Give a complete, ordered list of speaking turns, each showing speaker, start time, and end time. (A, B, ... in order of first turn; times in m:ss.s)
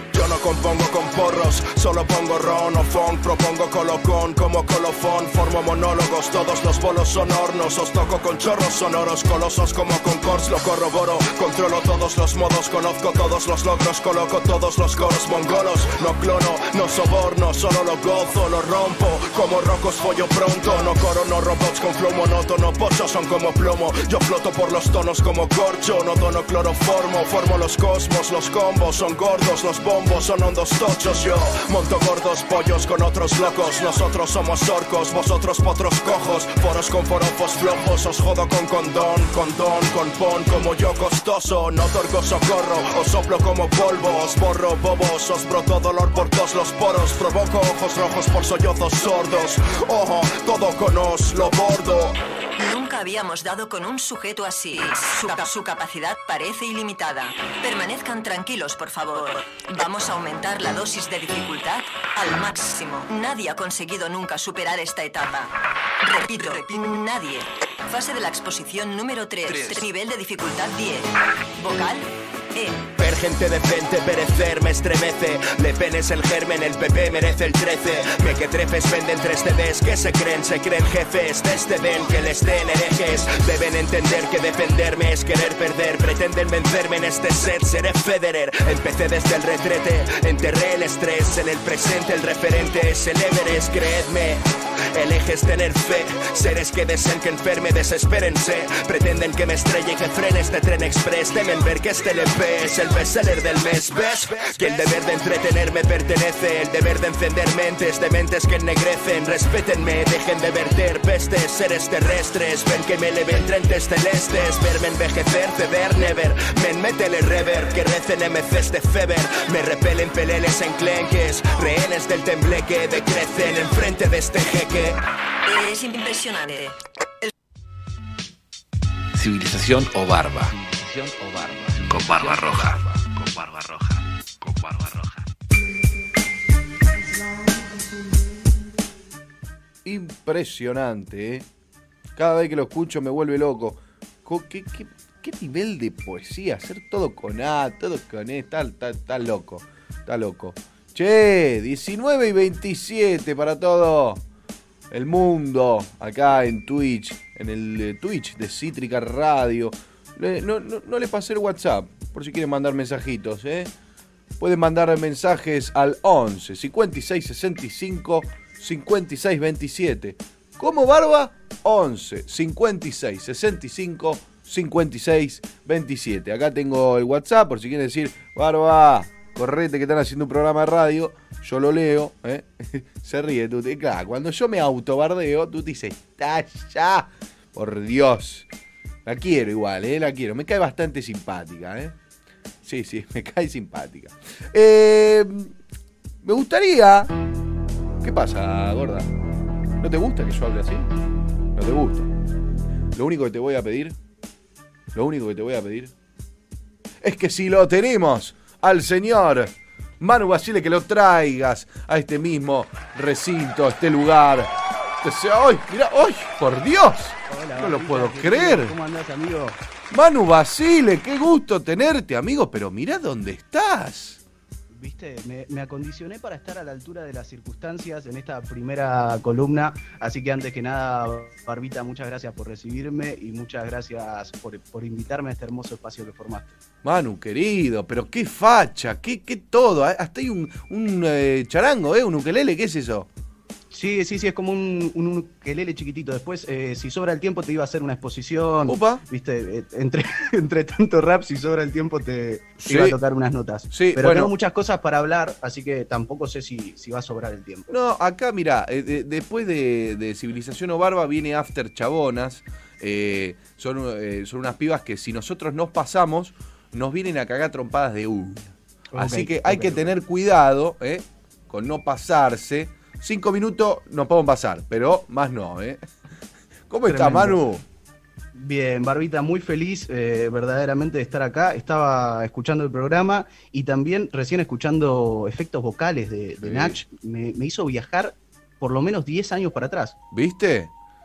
0:00.1-0:52.2 A
0:52.6-1:12.9 B
1:13.0-2:05.0 A
2:05.4-2:07.3 B
2:09.1-2:15.2 C
2:19.8-2:21.4 D
2:22.2-2:34.2 D
2:34.9-2:43.7 D
2:44.4-3:08.4 D
3:09.0-3:12.0 D
3:12.6-3:15.5 D
3:16.2-3:17.1 D
3:18.0-3:19.1 D
3:19.8-3:20.9 D
3:21.5-3:22.1 D
3:22.9-3:24.0 D
3:24.9-3:25.9 D
3:27.0-3:38.8 D
3:37.3-3:39.6 E
3:39.9-3:44.2 D
3:44.7-3:56.5 E
3:56.8-4:03.1 D
4:03.7-4:17.7 E
4:08.6-4:09.0 D
4:12.6-4:13.0 D
4:13.7-4:14.3 D
4:17.7-4:35.8 D
4:28.9-4:29.9 E
4:36.7-4:37.6 D
4:36.9-4:37.4 E
4:38.3-4:50.0 E
4:46.4-4:46.8 D
4:50.1-4:50.7 D